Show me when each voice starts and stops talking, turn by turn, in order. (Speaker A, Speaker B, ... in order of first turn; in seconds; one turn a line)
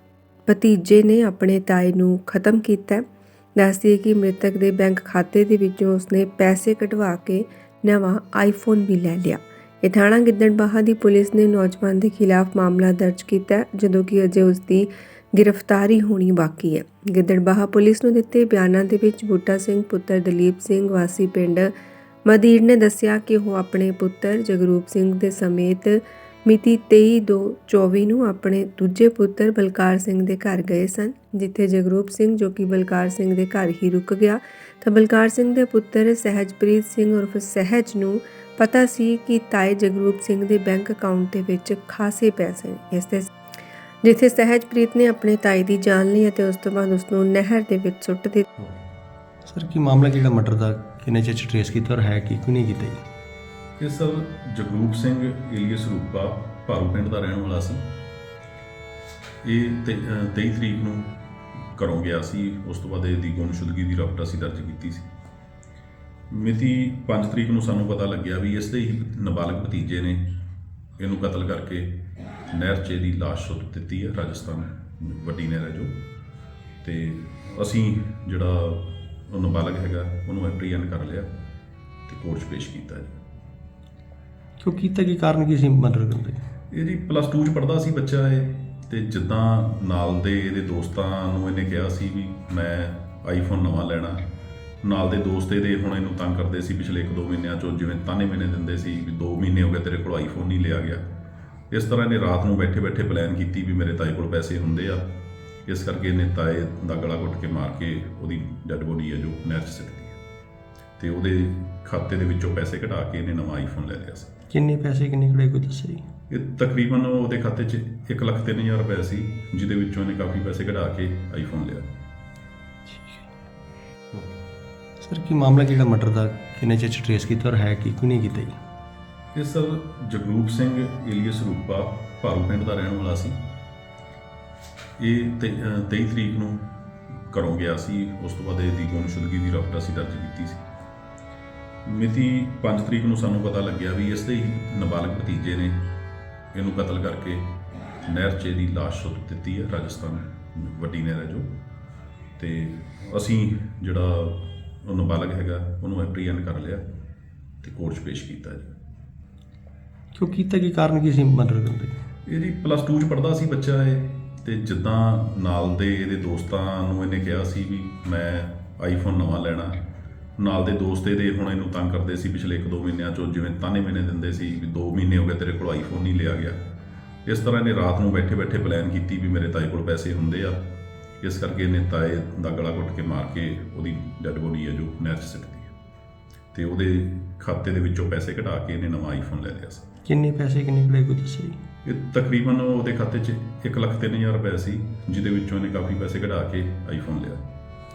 Speaker A: 0.5-3.0
Speaker A: 3.5-21.7
Speaker A: 22.2-43.3
Speaker A: 44.0-48.5
Speaker B: 49.5-53.0
Speaker C: 53.8-57.9
Speaker C: 59.4-65.1
Speaker C: 66.3-70.4
Speaker C: 71.0-76.0
Speaker C: 76.8-81.3
Speaker C: 82.1-83.2
Speaker B: 84.6-86.4
Speaker C: 86.7-94.2
Speaker C: 94.8-101.1
Speaker C: 101.7-105.1
Speaker C: 105.7-110.2
Speaker C: 111.0-114.3
Speaker B: 114.5-116.0
Speaker C: 116.3-121.9
Speaker B: 122.9-123.3
Speaker B: 125.0-128.6
Speaker C: 129.3-133.4
Speaker C: 135.0-136.7
Speaker C: 137.3-140.6
Speaker C: 141.8-145.9
Speaker C: 146.5-147.5
Speaker C: 148.0-151.5
Speaker C: 152.4-156.8
Speaker C: 157.6-158.7
Speaker B: 160.1-161.9
Speaker C: 162.2-169.8
Speaker C: 170.4-176.6
Speaker C: 177.2-180.6
Speaker C: 181.2-185.7
Speaker C: 186.5-189.8
Speaker B: 190.0-191.6
Speaker C: 191.8-197.4